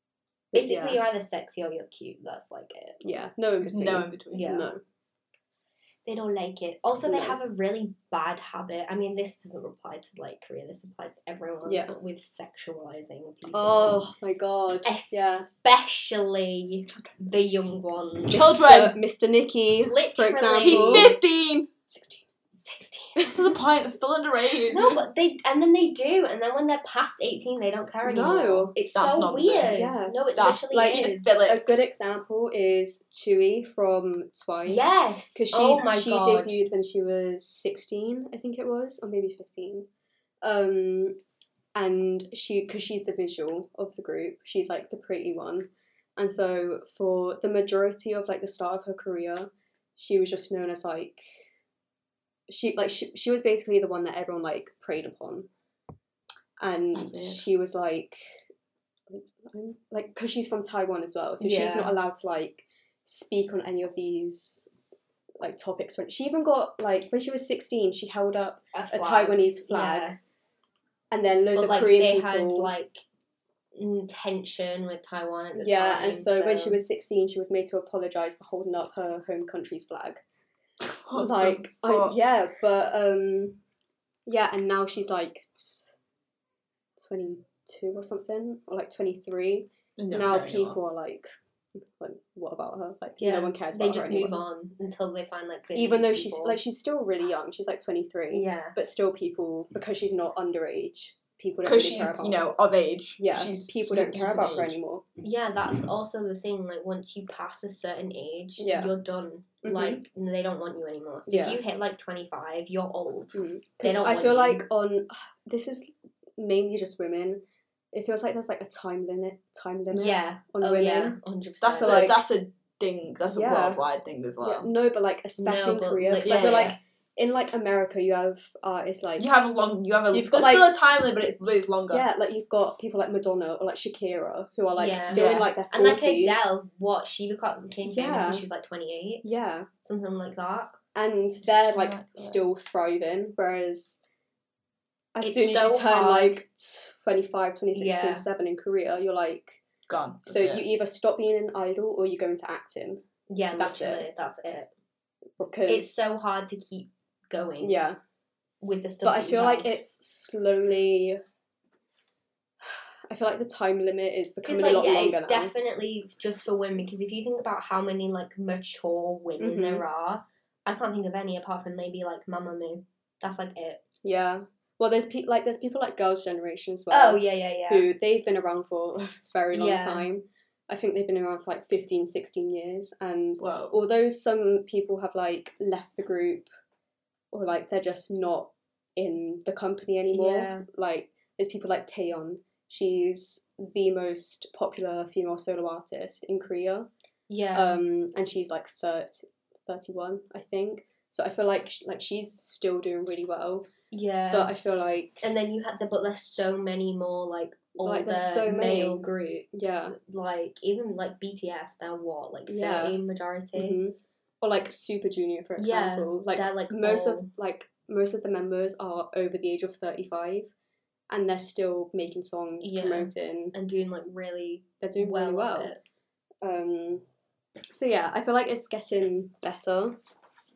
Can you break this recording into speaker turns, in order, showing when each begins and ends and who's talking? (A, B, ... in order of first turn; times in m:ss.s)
0:00.5-0:03.1 A
0:00.5-0:01.0 B
0:03.0-0:04.8 B
0:03.7-0:04.5 C
0:04.3-0:04.7 A
0:06.0-0:14.0 A
0:07.0-0:07.4 B
0:11.6-0:12.0 B
0:13.5-0:15.5 B
0:14.8-0:18.6 A
0:18.3-0:21.2 B
0:18.3-0:19.0 C
0:19.8-0:21.2 A
0:20.6-0:21.7 C
0:21.9-0:22.2 B
0:22.5-0:23.2 A
0:23.2-0:25.0 C
0:24.7-0:31.4 A
0:28.0-0:28.7 B
0:28.9-0:29.7 C
0:29.6-0:39.9 B
0:30.4-0:31.6 C
0:34.6-0:36.6 A
0:40.4-0:41.2 B
0:41.7-0:51.4 B
0:52.5-0:55.5 B
0:56.6-0:58.4 B
0:56.9-0:57.4 C
0:59.1-1:04.7 B
1:01.4-1:02.0 A
1:05.4-1:10.1 B
1:08.7-1:10.2 A
1:11.1-1:12.7 B
1:11.5-1:13.0 A
1:13.7-1:16.8 A
1:15.5-1:20.2 B
1:20.8-1:22.2 C
1:21.2-1:23.6 B
1:24.2-1:25.9 B
1:27.0-1:31.3 B
1:30.0-1:30.8 C
1:32.0-1:34.4 B
1:33.2-1:36.6 A
1:35.7-1:42.5 B
1:38.3-1:38.8 A
1:41.6-1:44.8 C
1:43.2-1:45.0 B
1:45.2-1:54.6 A
1:48.6-1:48.9 B
1:49.6-1:50.0 B
1:51.3-1:51.6 B
1:53.3-1:57.4 B
1:57.9-2:01.2 B
1:59.9-2:02.2 A
2:01.6-2:04.7 C
2:01.7-2:02.2 B
2:03.3-2:03.8 B
2:04.4-2:09.3 B
2:05.4-2:06.8 A
2:06.2-2:06.7 C
2:09.2-2:12.0 C
2:10.1-2:10.7 B
2:11.9-2:16.5 B
2:14.8-2:19.2 A
2:15.1-2:15.5 C
2:17.8-2:18.4 B
2:19.2-2:19.7 B
2:19.8-2:20.8 A
2:20.9-2:24.0 B
2:21.7-2:22.4 C
2:25.2-2:29.6 B
2:25.2-2:26.4 A
2:27.7-2:28.2 A
2:29.9-2:30.6 C
2:30.2-2:33.0 B
2:33.3-2:34.7 A
2:33.6-2:34.1 B
2:35.4-2:35.9 B
2:35.7-2:37.8 A
2:37.6-2:38.0 B
2:38.6-2:39.8 A
2:39.0-2:41.2 B
2:42.6-2:45.5 B
2:44.4-2:53.8 A
2:49.4-2:49.8 B
2:54.0-3:06.5 B
2:56.9-2:57.9 A
2:59.5-3:00.1 A
3:03.4-3:03.8 C
3:07.3-3:16.9 B
3:10.1-3:10.6 A
3:17.3-3:17.8 A
3:17.5-3:23.7 B
3:23.9-3:24.5 A
3:24.3-3:25.2 B
3:25.2-3:33.8 A
3:27.8-3:30.0 B
3:32.5-3:33.0 B
3:33.5-3:40.5 B
3:35.6-3:37.3 A
3:41.1-3:43.5 B
3:42.6-3:45.8 A
3:44.8-3:45.7 B
3:46.4-3:47.0 B
3:47.7-3:50.0 B